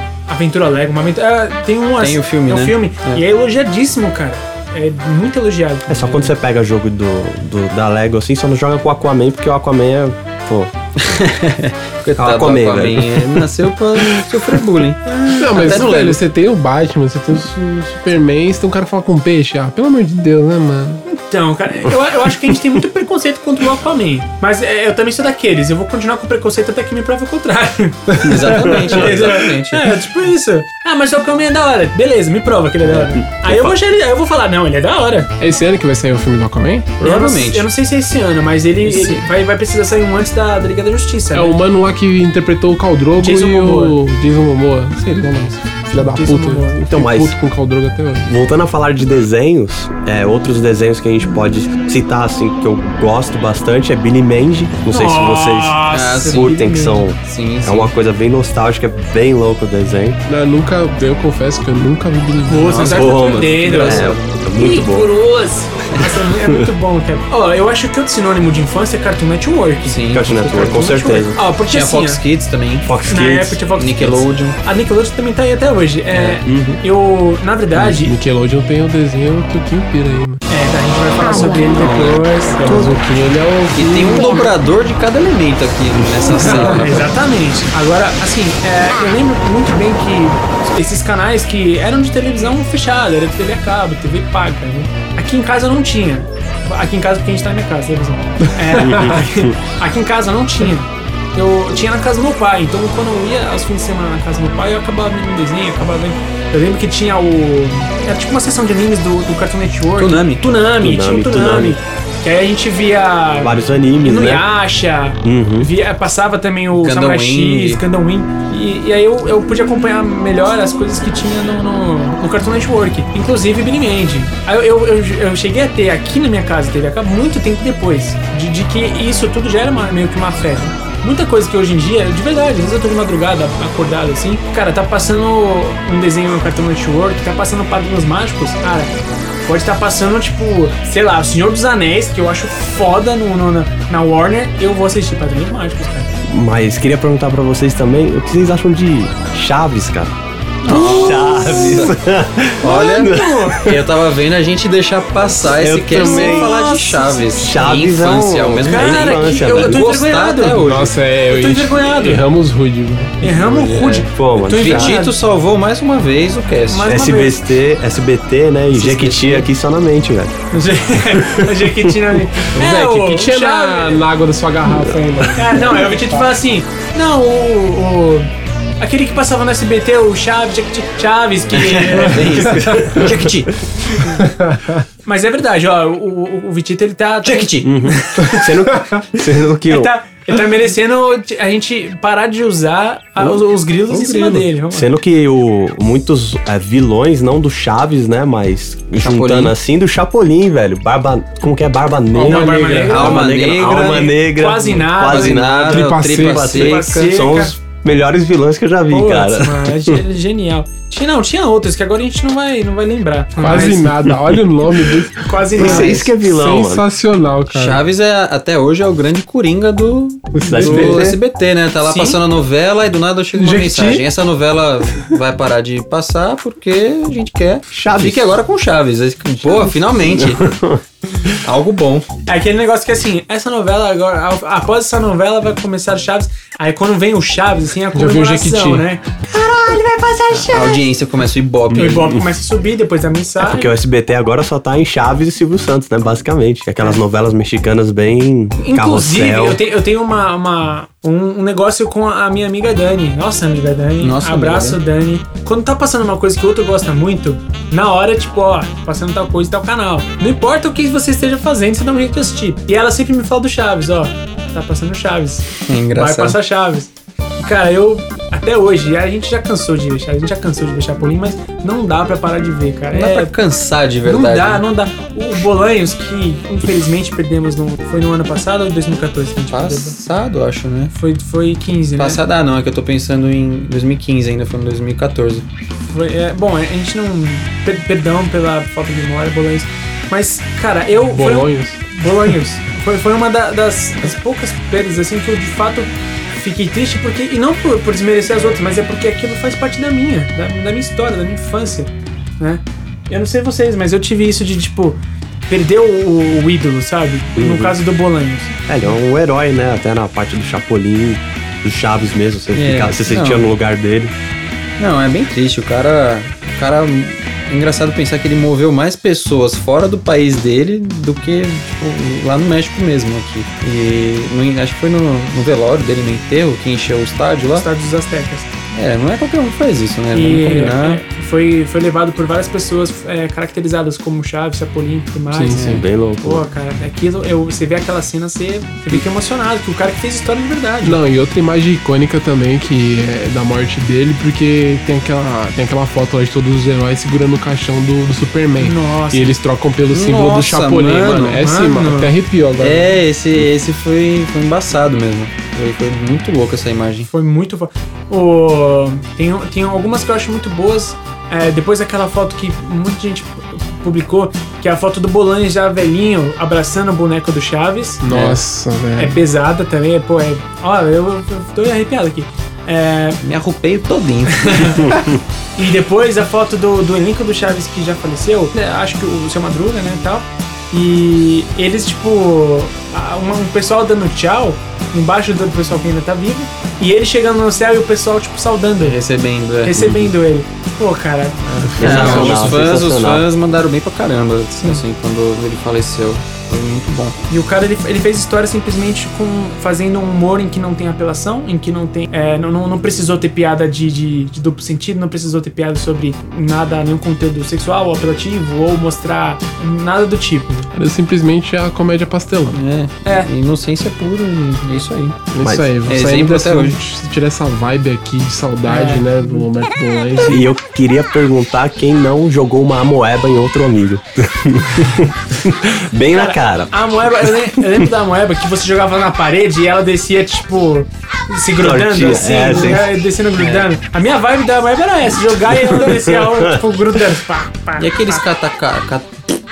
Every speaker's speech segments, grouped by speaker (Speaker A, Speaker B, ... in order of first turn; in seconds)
Speaker A: 0.3-6.3, 21.1-35.3, 37.0-41.6, 43.2-44.0, 45.9-46.8, 54.9-57.1, 62.5-72.2, 73.1-78.1, 80.5-82.9, 86.4-146.1, 150.7-151.6, 152.6-153.6, 155.9-157.3, 158.7-160.7, 161.3-162.2, 163.2-165.2, 166.7-167.4, 168.7-169.5, 170.5-174.1, 175.3-183.0, 185.1-187.5, 188.1-188.4, 189.7-194.9, 202.2-205.6, 206.6-207.6, 208.9-213.9, 215.2-216.1, 221.8-222.2, 232.3-239.1, 241.7-243.7, 248.6-273.3, 274.1-280.0, 280.9-282.2, 285.8-308.6, 327.6-328.5, 330.1-341.0, 348.6-349.4, 351.4-352.1, 357.1-368.0, 369.0-373.2, 374.4-374.9, 375.6-389.0, 389.6-392.3, 397.3-410.7, 418.7-419.5, 426.1-438.2
Speaker B: 2.0-3.2, 11.0-16.2, 28.2-29.9, 37.0-37.7, 38.9-39.2, 55.9-56.5, 57.2-57.9, 62.7-64.4, 69.8-70.9, 71.7-72.9, 73.8-74.6, 76.1-76.4, 81.6-82.2, 83.7-87.1, 110.0-110.4, 116.8-117.8, 150.6-151.9, 152.6-161.0, 163.3-167.0, 181.5-183.5, 187.2-187.7, 199.0-199.6, 202.2-204.1, 205.1-207.1, 217.5-230.5, 231.4-232.1, 240.3-242.2, 254.0-254.8, 265.7-266.4, 272.9-274.6, 279.5-280.9, 282.0-285.4, 312.6-313.5, 314.8-327.7, 328.7-331.0, 349.9-351.4, 352.6-357.1, 368.1-368.4, 373.2-374.9, 388.8-389.9, 391.8-397.1, 412.5-415.2, 415.9-416.8, 433.4-433.7, 437.8-439.1
Speaker C: 5.9-10.7, 12.2-13.4, 28.7-29.2, 32.9-33.7, 46.9-47.4, 48.3-60.2, 62.9-65.1, 70.1-71.4, 72.8-73.6, 76.5-76.8, 98.8-99.6, 110.8-111.8, 113.4-114.5, 115.2-115.7, 146.2-153.8, 155.5-156.6, 157.4-159.8, 164.1-165.0, 166.8-170.4, 171.0-172.1, 187.6-189.9, 193.2-210.0, 213.5-214.4, 215.6-216.9, 220.4-221.2, 227.7-228.3, 229.6-230.8, 239.3-240.8, 243.4-249.6, 307.4-307.8, 308.7-314.1, 335.5-336.4, 374.8-375.1, 389.7-390.1, 391.8-393.3, 415.4-415.7, 420.3-427.9, 431.6-432.9, 435.6-436.6
Speaker D: 15.3-21.0, 35.4-36.9, 41.3-48.3, 60.3-62.9, 77.9-80.4, 82.6-84.5, 86.4-86.8, 98.7-99.2, 160.6-163.2, 172.6-176.3, 184.2-184.8, 205.7-206.6, 213.4-217.8, 220.4-221.0, 223.4-224.0, 237.9-238.9, 291.1-292.3, 335.3-335.9, 340.8-352.9, 368.0-369.2, 391.8-392.6, 410.7-412.6, 415.3-420.5